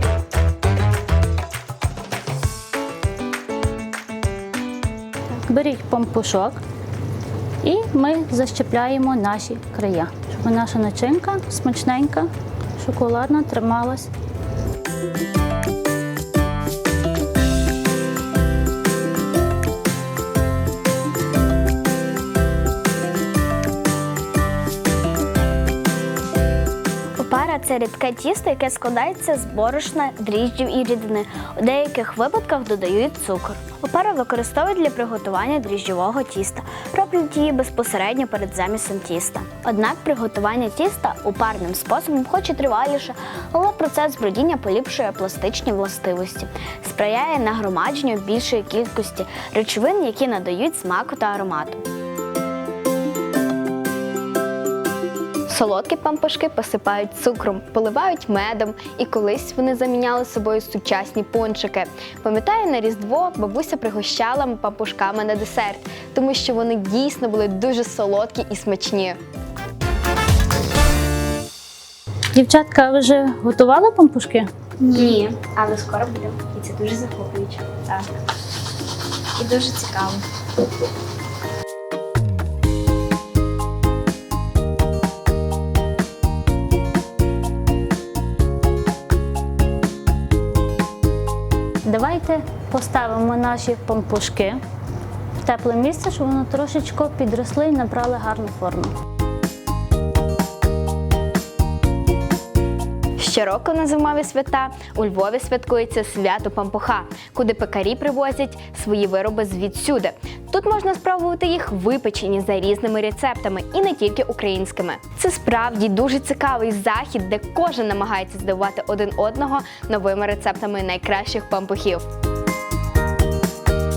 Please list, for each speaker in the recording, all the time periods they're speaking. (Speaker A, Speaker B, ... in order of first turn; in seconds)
Speaker A: 5.4-6.6, 7.6-14.1, 72.3-74.5, 91.8-94.6, 95.4-98.9
Speaker B: 27.2-51.8, 74.8-78.1, 79.3-80.2
Speaker C: 55.5-69.2, 103.2-122.0